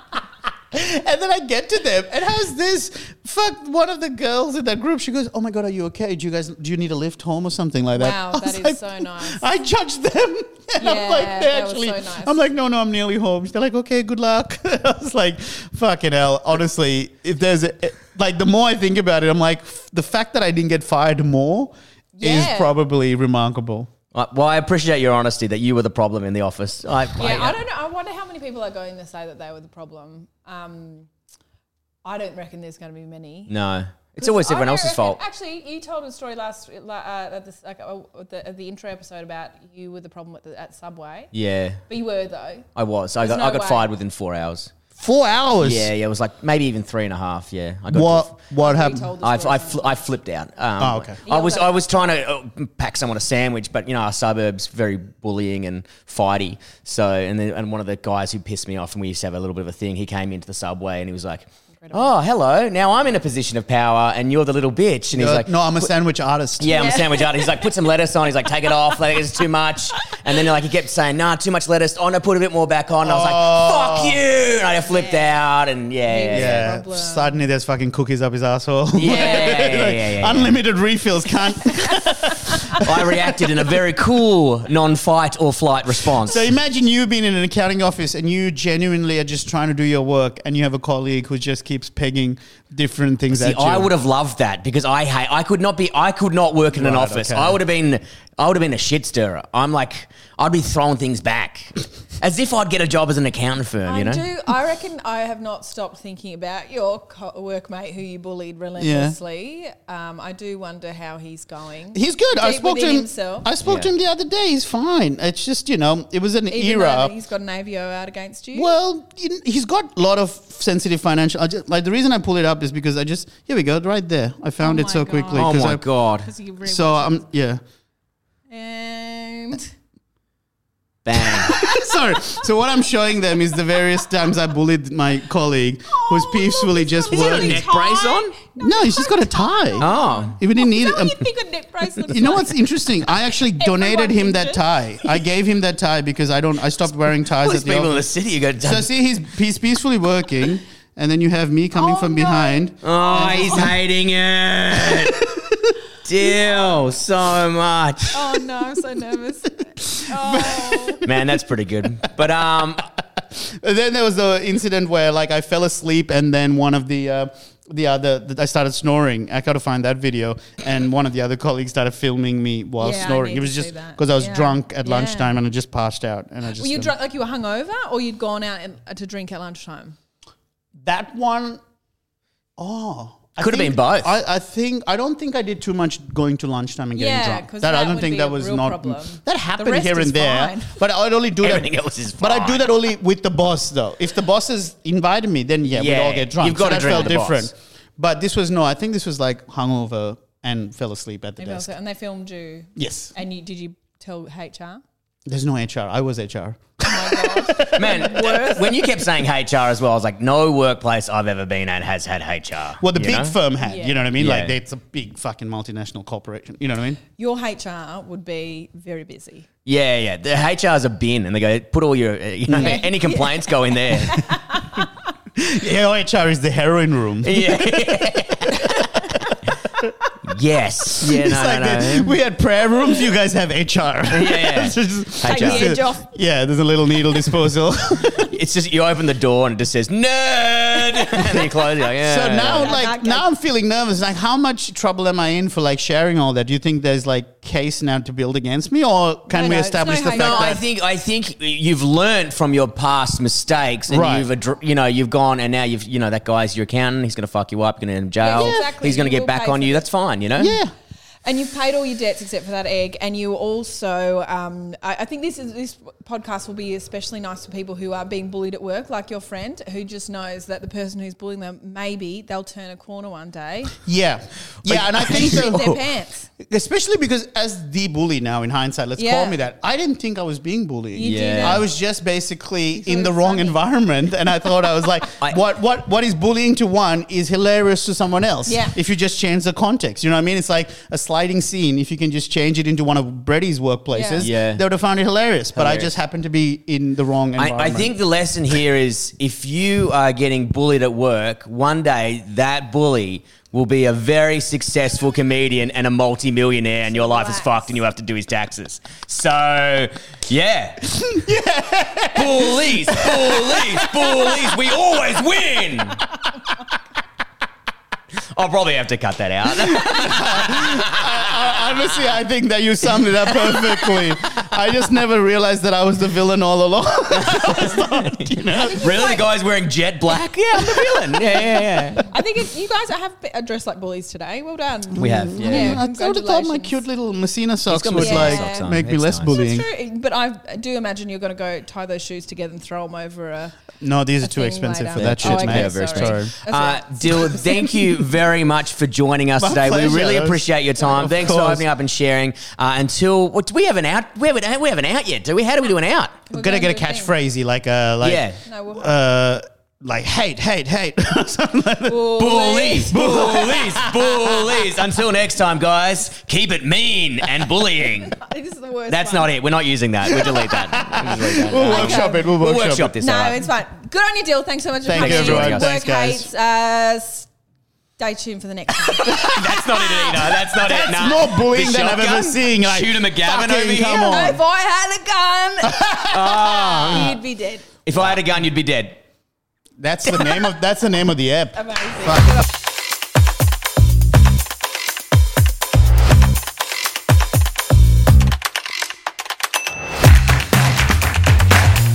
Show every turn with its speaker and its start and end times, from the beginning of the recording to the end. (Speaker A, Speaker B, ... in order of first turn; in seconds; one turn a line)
Speaker A: 0.7-23.9
Speaker B: 8.0-9.5
Speaker B: 10.8-12.5
Speaker B: 22.2-22.8
Speaker C: 24.1-27.6
Speaker B: 27.2-31.1
Speaker B: 32.0-33.5
Speaker C: 33.5-35.2
Speaker B: 34.2-41.3
Speaker C: 41.3-41.8
Speaker B: 41.9-42.7
Speaker C: 42.8-44.7
Speaker B: 43.2-43.9
Speaker A: 45.0-45.9
Speaker C: 45.6-48.4
Speaker A: 47.9-49.1
Speaker B: 48.6-50.0
Speaker C: 49.2-65.9
Speaker A: 50.8-51.2
Speaker B: 51.3-51.9
Speaker B: 61.8-62.1
Speaker A: 65.1-67.0
Speaker C: 66.6-76.7
Speaker B: 66.7-67.5
Speaker A: 73.0-74.2
Speaker B: 74.9-75.3
Speaker B: 76.1-77.4
Speaker A: 76.3-83.2
Speaker C: 79.0-80.6
Speaker B: 79.1-79.5
Speaker C: 82.7-86.5
Speaker A: 86.2-93.9
Speaker C: 93.3-104.2
Speaker A: 96.7-97.6
Speaker B: 103.8-113.5
Speaker A: 108.8-109.2
Speaker A: 111.9-117.1
Speaker C: 113.7-113.9
Speaker B: 116.5-118.7
Speaker A: 118.5-125.8
Speaker B: 124.6-125.5
Speaker C: 125.3-126.3
Speaker B: 126.2-127.2
Speaker A: 126.6-127.6
Speaker B: 128.5-129.7
Speaker C: 131.1-131.5
Speaker B: 131.4-132.4
Speaker A: 131.4-138.0
Speaker B: 135.9-142.6
Speaker C: 137.1-138.3
Speaker A: 138.6-141.3
Speaker C: 139.8-140.4
Speaker A: 142.1-148.1
Speaker B: 143.6-144.6
Speaker C: 147.4-148.9
Speaker A: 148.6-153.8
Speaker B: 151.7-153.7
Speaker C: 152.8-155.2
Speaker C: 156.0-158.2
Speaker B: 156.3-156.8
Speaker B: 158.1-161.0
Speaker A: 159.8-161.2
Speaker C: 161.0-162.9
Speaker A: 163.3-176.9
Speaker B: 172.8-175.4
Speaker B: 176.6-180.0
Speaker A: 180.8-181.6
Speaker A: 182.6-201.7
Speaker C: 183.4-184.1
Speaker B: 187.0-190.8
Speaker C: 191.4-192.7
Speaker C: 195.7-197.5
Speaker B: 201.4-204.8
Speaker A: 202.8-203.1
Speaker A: 205.3-208.5
Speaker B: 206.8-208.8
Speaker C: 207.7-213.3
Speaker A: 212.8-217.0
Speaker B: 213.6-214.1
Speaker C: 214.2-214.5
Speaker B: 217.2-219.5
Speaker C: 219.7-224.4
Speaker A: 222.5-222.8
Speaker B: 222.6-224.8
Speaker A: 225.4-230.1
Speaker C: 227.2-228.7
Speaker C: 230.3-232.2
Speaker A: 231.0-238.3
Speaker C: 234.1-235.8
Speaker B: 235.3-236.1
Speaker C: 238.3-242.7
Speaker A: 242.0-250.6
Speaker B: 242.4-243.3
Speaker B: 249.3-250.6
Speaker C: 250.1-260.6
Speaker A: 253.9-254.3
Speaker B: 258.2-259.9
Speaker A: 258.3-258.7
Speaker A: 260.4-260.7
Speaker B: 261.2-273.8
Speaker A: 273.9-275.8
Speaker C: 274.7-275.7
Speaker B: 275.0-276.3
Speaker A: 276.4-297.9
Speaker B: 279.0-279.4
Speaker B: 280.9-281.7
Speaker C: 281.0-281.6
Speaker B: 282.8-283.6
Speaker B: 288.5-288.8
Speaker B: 293.9-294.3
Speaker C: 294.2-294.6
Speaker C: 295.5-295.9
Speaker C: 297.4-311.1
Speaker B: 306.9-307.8
Speaker A: 311.0-314.6
Speaker C: 312.1-316.1
Speaker C: 318.4-321.3
Speaker A: 319.6-329.2
Speaker C: 323.5-323.9
Speaker C: 327.1-332.1
Speaker B: 328.6-329.2
Speaker B: 332.1-336.8
Speaker A: 334.9-339.7
Speaker C: 335.0-335.8
Speaker C: 337.7-339.3
Speaker B: 338.0-343.6
Speaker A: 343.8-346.3
Speaker B: 344.2-347.8
Speaker C: 345.0-356.2
Speaker A: 349.4-351.7
Speaker B: 356.3-357.1
Speaker A: 356.3-362.2
Speaker C: 358.0-358.4
Speaker B: 358.4-358.9
Speaker B: 361.9-362.9
Speaker C: 362.2-368.2
Speaker A: 362.8-364.7
Speaker B: 368.1-369.3
Speaker C: 368.9-373.4
Speaker A: 370.1-372.9
Speaker B: 371.6-372.3
Speaker B: 373.0-377.3
Speaker A: 374.9-376.3
Speaker C: 375.0-375.6
Speaker B: 378.0-379.7
Speaker C: 379.1-384.2
Speaker A: 380.5-384.4
Speaker B: 383.7-387.6
Speaker A: 385.6-387.1
Speaker C: 386.1-387.2
Speaker C: 387.9-389.0
Speaker A: 387.9-388.2
Speaker A: 389.8-392.4
Speaker B: 391.6-392.4